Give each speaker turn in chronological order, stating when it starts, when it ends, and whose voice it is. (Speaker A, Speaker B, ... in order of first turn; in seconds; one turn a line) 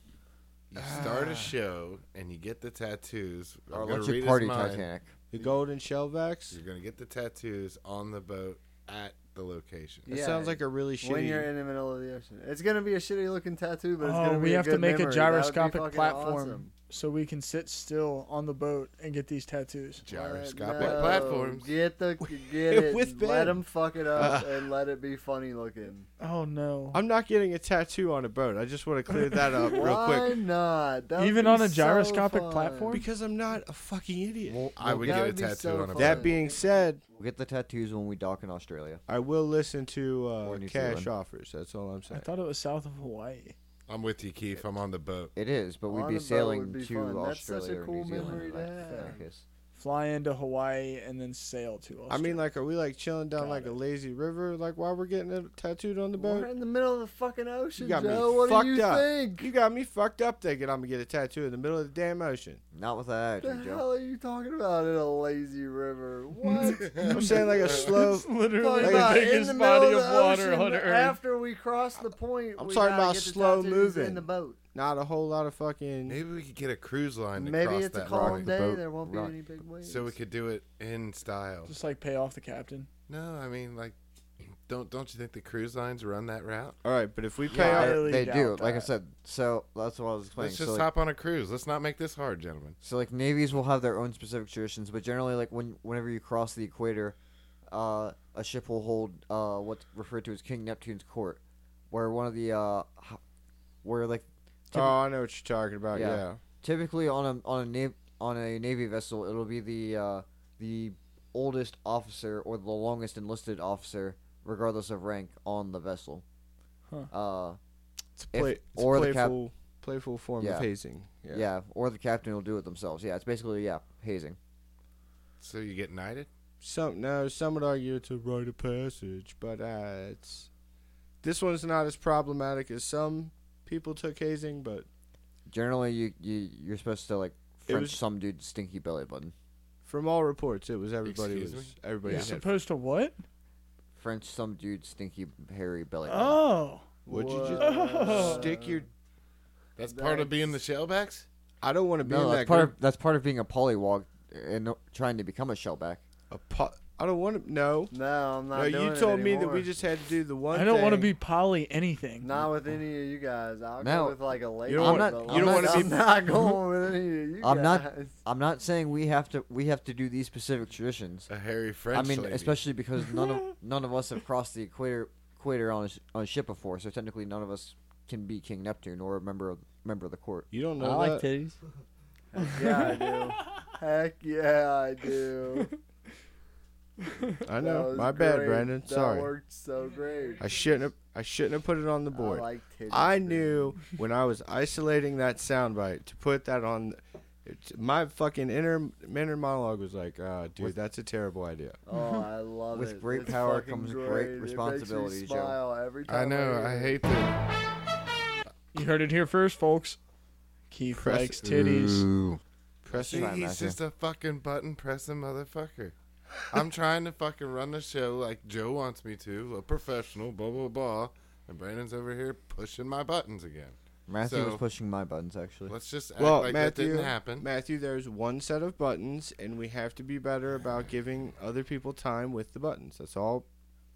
Speaker A: 0.7-4.9
Speaker B: 0.8-1.6
Speaker C: 3.7-5.1
Speaker B: 5.3-6.6
Speaker A: 6.5-10.1
Speaker D: 10.1-16.7
Speaker B: 10.1-11.5
Speaker E: 14.0-20.1
Speaker A: 20.1-21.7
Speaker D: 20.1-26.1
Speaker B: 20.8-21.3
Speaker B: 22.2-24.7
Speaker E: 26.2-27.0
Speaker B: 26.9-30.4
Speaker D: 29.6-33.0
Speaker E: 31.2-33.1
Speaker B: 32.9-35.2
Speaker A: 34.5-36.4
Speaker D: 34.9-36.5
Speaker B: 36.0-37.0
Speaker C: 37.2-39.0
Speaker B: 39.1-42.3
Speaker C: 40.4-41.1
Speaker E: 42.1-43.6
Speaker A: 43.9-45.3
Speaker C: 45.4-49.4
Speaker D: 45.9-49.2
Speaker E: 49.7-52.4
Speaker B: 52.1-56.5
Speaker E: 53.4-53.7
Speaker D: 56.2-59.5
Speaker B: 57.8-62.6
Speaker C: 62.7-63.9
Speaker D: 63.4-74.6
Speaker E: 66.5-71.2
Speaker A: 66.7-67.2
Speaker B: 67.0-69.3
Speaker B: 72.6-76.2
Speaker A: 76.1-78.5
Speaker D: 77.4-80.2
Speaker C: 78.1-79.4
Speaker B: 78.4-78.8
Speaker A: 79.8-81.7
Speaker E: 81.7-82.9
Speaker A: 83.1-86.8
Speaker B: 86.8-88.1
Speaker C: 87.5-90.9
Speaker E: 87.5-88.9
Speaker A: 90.4-92.8
Speaker C: 92.8-97.2
Speaker C: 97.7-103.2
Speaker C: 103.8-104.9
Speaker B: 104.7-106.4
Speaker C: 105.9-116.2
Speaker C: 117.1-117.6
Speaker B: 118.2-121.5
Speaker C: 118.3-119.4
Speaker C: 120.4-120.7
Speaker C: 121.3-124.4
Speaker A: 125.4-126.3
Speaker B: 126.6-130.5
Speaker B: 131.2-134.9
Speaker C: 135.5-139.3
Speaker B: 137.7-138.0
Speaker B: 139.8-142.5
Speaker A: 141.0-141.7
Speaker E: 142.1-143.2
Speaker C: 143.9-146.4
Speaker E: 146.1-146.9
Speaker D: 147.1-148.9
Speaker B: 147.1-148.9
Speaker E: 147.5-148.5
Speaker A: 149.8-151.3
Speaker D: 149.8-150.4
Speaker B: 151.6-152.7
Speaker C: 152.0-156.0
Speaker B: 156.3-157.9
Speaker D: 157.9-159.7
Speaker B: 158.5-161.2
Speaker E: 160.5-162.3
Speaker D: 162.2-168.2
Speaker C: 163.8-164.2
Speaker B: 164.7-166.0
Speaker C: 164.7-166.0
Speaker C: 167.4-171.3
Speaker A: 171.3-172.6
Speaker C: 171.9-180.5
Speaker B: 180.5-181.3
Speaker D: 181.0-181.5
Speaker D: 182.3-185.7
Speaker E: 182.4-183.0
Speaker E: 187.1-187.3
Speaker B: 187.4-189.3
Speaker D: 187.5-190.5
Speaker B: 190.4-201.8
Speaker D: 192.1-193.8
Speaker D: 201.9-207.0
Speaker C: 202.7-205.6
Speaker A: 206.1-207.5
Speaker E: 208.7-210.0
Speaker E: 210.7-212.1
Speaker B: 210.9-211.4
Speaker C: 211.4-212.4
Speaker B: 212.8-213.4
Speaker C: 212.9-213.8
Speaker A: 213.0-215.9
Speaker A: 216.5-224.6
Speaker C: 224.1-225.8
Speaker A: 225.7-227.5
Speaker B: 226.2-233.5